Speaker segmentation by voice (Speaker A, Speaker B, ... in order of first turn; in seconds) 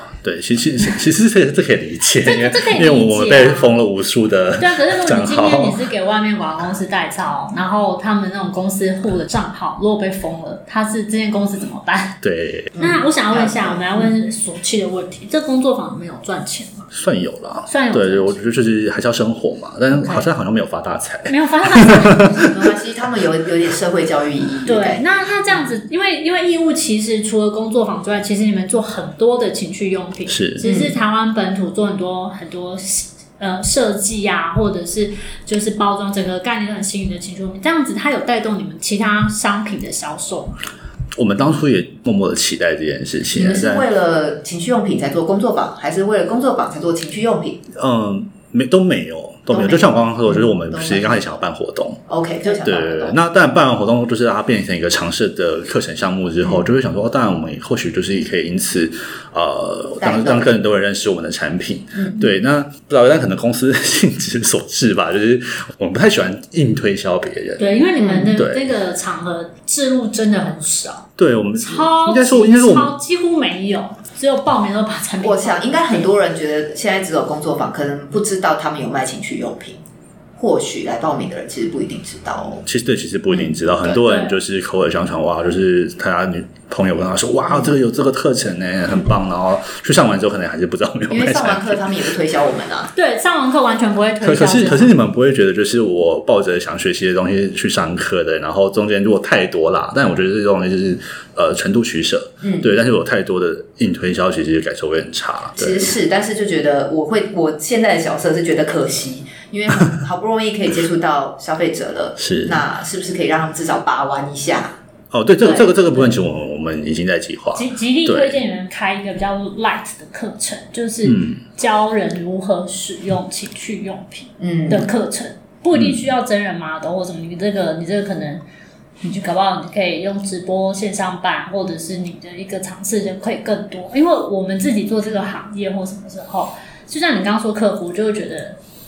Speaker A: 0.2-5.8, 12.2-12.7, 16.9-22.6, 30.3-30.6, 41.2-43.9, 47.7-52.0, 52.5-67.8, 68.3-68.7, 71.2-72.9, 82.6-91.8, 94.2-106.0, 112.2-112.6, 115.1-118.4, 121.0-121.4, 125.7-126.0
Speaker B: 2.2-3.8, 4.6-12.2, 12.7-16.9, 17.7-18.4, 19.9-20.3, 21.3-22.4, 24.6-40.6, 67.6-76.1, 83.9-84.4, 92.9-95.0, 117.5-128.4, 129.0-138.6
Speaker C: 12.8-14.1, 22.4-25.6, 30.6-31.0, 43.3-47.6, 49.5-51.4, 52.1-53.2, 60.0-60.5, 62.0-62.2, 68.0-68.3, 75.2-79.8, 80.4-82.6, 91.1-92.9, 102.4-102.7, 105.6-114.8, 115.4-116.1, 124.4-124.8